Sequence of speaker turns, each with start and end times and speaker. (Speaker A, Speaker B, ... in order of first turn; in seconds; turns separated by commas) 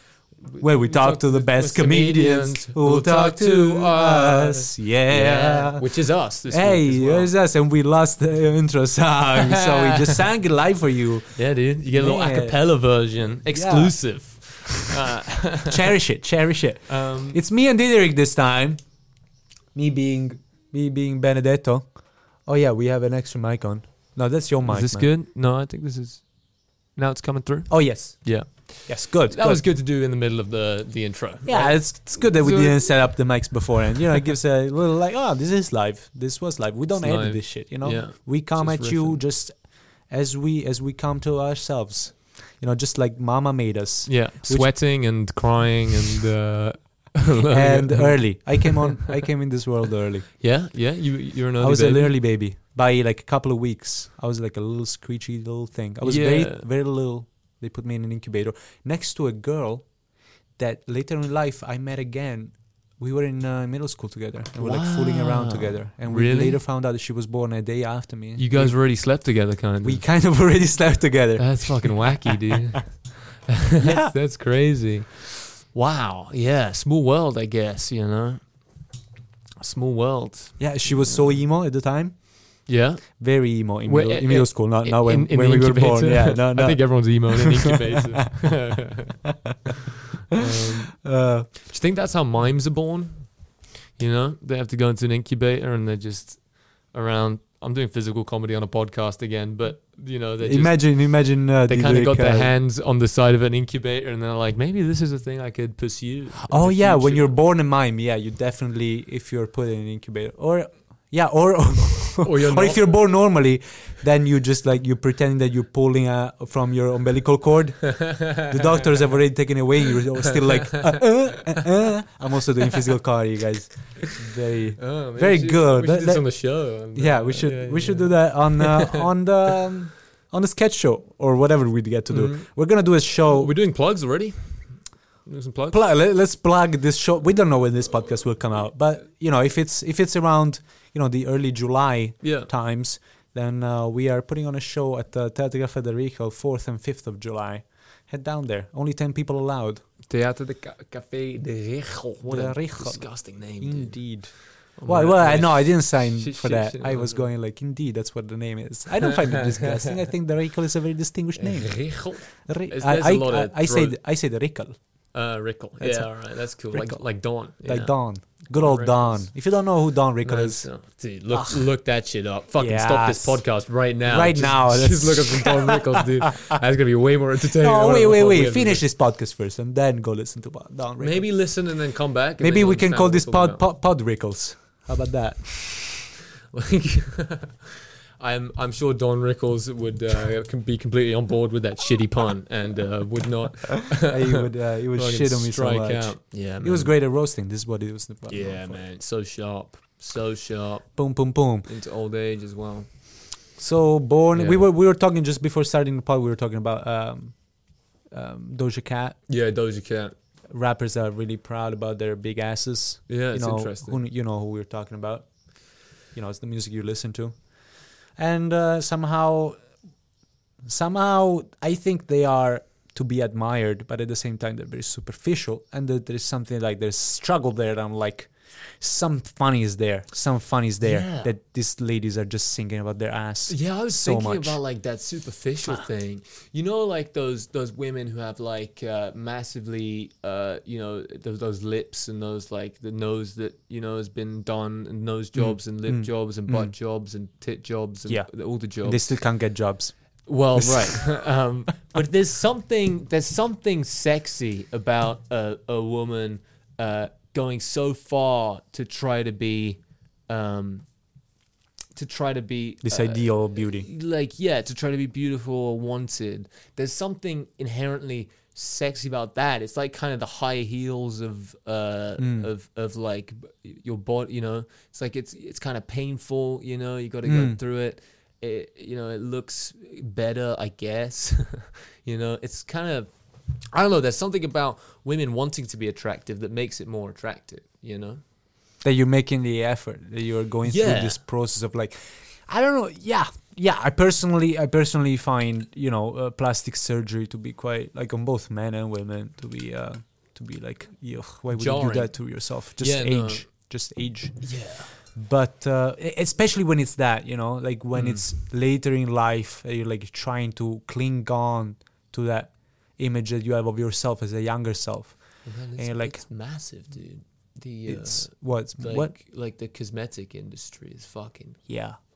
Speaker A: 0.5-7.3, Speaker B: 0.6-5.8, Speaker B: 6.5-11.4, Speaker A: 9.3-10.2, Speaker A: 11.3-15.9, Speaker B: 11.9-12.6, Speaker B: 13.5-14.0, Speaker B: 15.7-18.8, Speaker A: 16.9-17.4, Speaker B: 19.7-25.1, Speaker A: 24.6-26.3, Speaker A: 26.9-33.1, Speaker B: 27.7-29.6, Speaker B: 31.4-44.7, Speaker A: 36.9-39.2, Speaker A: 44.0-49.0, Speaker B: 47.5-50.3, Speaker A: 50.4-52.1, Speaker B: 51.6-59.9, Speaker A: 56.0-56.7, Speaker B: 60.5-68.8, Speaker A: 64.6-66.6, Speaker A: 68.3-70.0, Speaker B: 69.8-72.3, Speaker A: 71.4-78.4, Speaker B: 73.8-74.1, Speaker A: 79.6-81.4, Speaker B: 80.6-82.2, Speaker A: 82.7-83.2, Speaker B: 83.2-88.5, Speaker A: 83.8-89.2, Speaker A: 90.3-91.0, Speaker B: 90.3-91.5, Speaker A: 91.5-107.4, Speaker B: 100.4-102.5, Speaker B: 106.4-133.5, Speaker A: 112.2-113.0, Speaker A: 117.9-118.4, Speaker A: 124.8-129.0, Speaker A: 132.1-132.5, Speaker A: 133.3-135.8, Speaker B: 135.7-149.8, Speaker A: 142.2-142.5, Speaker A: 150.1-157.3, Speaker B: 152.2-164.8, Speaker A: 159.0-159.9, Speaker A: 161.3-163.9, Speaker A: 165.1-167.9, Speaker B: 165.8-167.0, Speaker B: 167.6-170.7, Speaker A: 168.6-169.3, Speaker A: 170.2-178.8, Speaker B: 171.3-171.6, Speaker B: 172.6-173.4, Speaker B: 174.1-176.0, Speaker B: 177.6-181.3, Speaker A: 181.0-183.6, Speaker B: 182.4-186.1, Speaker A: 186.5-196.9, Speaker B: 194.0-198.8, Speaker A: 198.3-201.1, Speaker B: 200.9-201.7, Speaker A: 201.7-202.9, Speaker B: 203.6-207.4, Speaker A: 204.3-204.7, Speaker B: 208.1-209.2, Speaker A: 209.3-210.1, Speaker B: 210.5-217.6, Speaker A: 213.1-214.0, Speaker B: 218.1-219.7, Speaker B: 220.6-234.6, Speaker A: 230.8-231.3, Speaker A: 233.5-249.2, Speaker B: 245.3-246.7, Speaker B: 248.8-249.9, Speaker A: 250.3-260.9, Speaker B: 250.6-251.1, Speaker A: 261.9-283.1, Speaker B: 262.8-263.9, Speaker B: 272.2-272.5, Speaker B: 277.2-277.6, Speaker A: 283.7-288.2, Speaker B: 288.8-316.2, Speaker A: 290.6-291.2, Speaker A: 301.5-303.5, Speaker A: 304.4-304.9, Speaker A: 307.9-308.3, Speaker A: 315.4-321.7, Speaker B: 317.9-319.1, Speaker B: 321.7-321.9